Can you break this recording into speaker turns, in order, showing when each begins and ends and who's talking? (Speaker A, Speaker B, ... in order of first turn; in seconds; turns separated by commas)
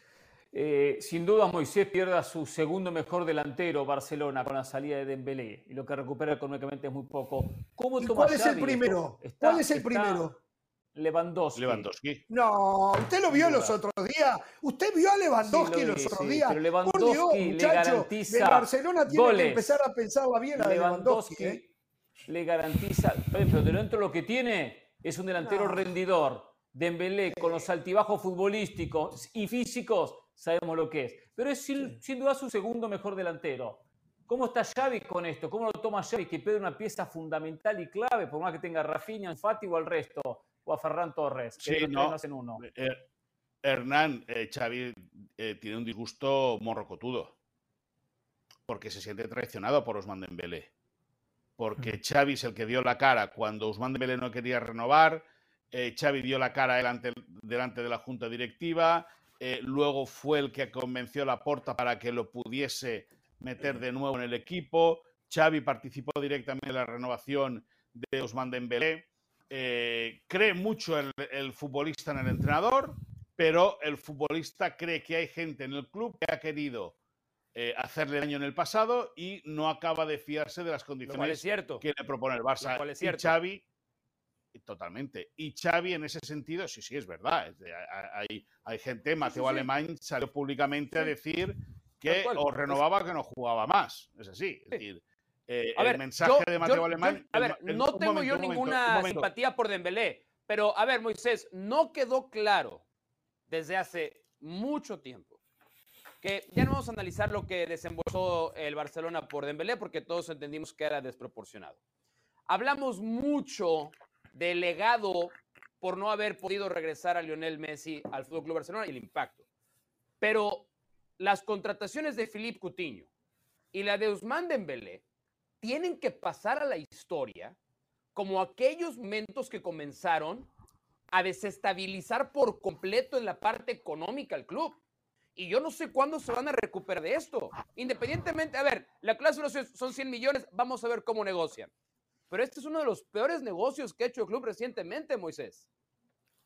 Speaker A: 0.5-10.3, Speaker B: 8.0-10.4, Speaker A: 10.9-11.9, Speaker C: 11.6-12.2, Speaker B: 12.3-21.6, Speaker A: 13.3-13.8, Speaker A: 15.4-19.8, Speaker A: 20.6-21.7, Speaker A: 22.3-42.6, Speaker B: 25.4-25.9, Speaker B: 27.3-27.7, Speaker C: 41.6-43.0, Speaker C: 43.6-47.3, Speaker C: 48.7-50.7, Speaker C: 51.6-77.0, Speaker C: 77.5-83.6, Speaker D: 81.1-81.8, Speaker D: 82.6-83.3, Speaker C: 84.5-99.3, Speaker D: 89.2-89.7, Speaker D: 92.1-92.8, Speaker D: 95.8-102.8, Speaker D: 103.5-105.4, Speaker D: 106.2-111.8, Speaker D: 112.5-119.4, Speaker D: 120.2-120.7, Speaker D: 121.2-123.1, Speaker D: 123.7-125.0, Speaker D: 125.6-127.6, Speaker D: 128.2-130.5, Speaker D: 131.1-134.8, Speaker D: 135.4-141.7, Speaker D: 142.3-145.7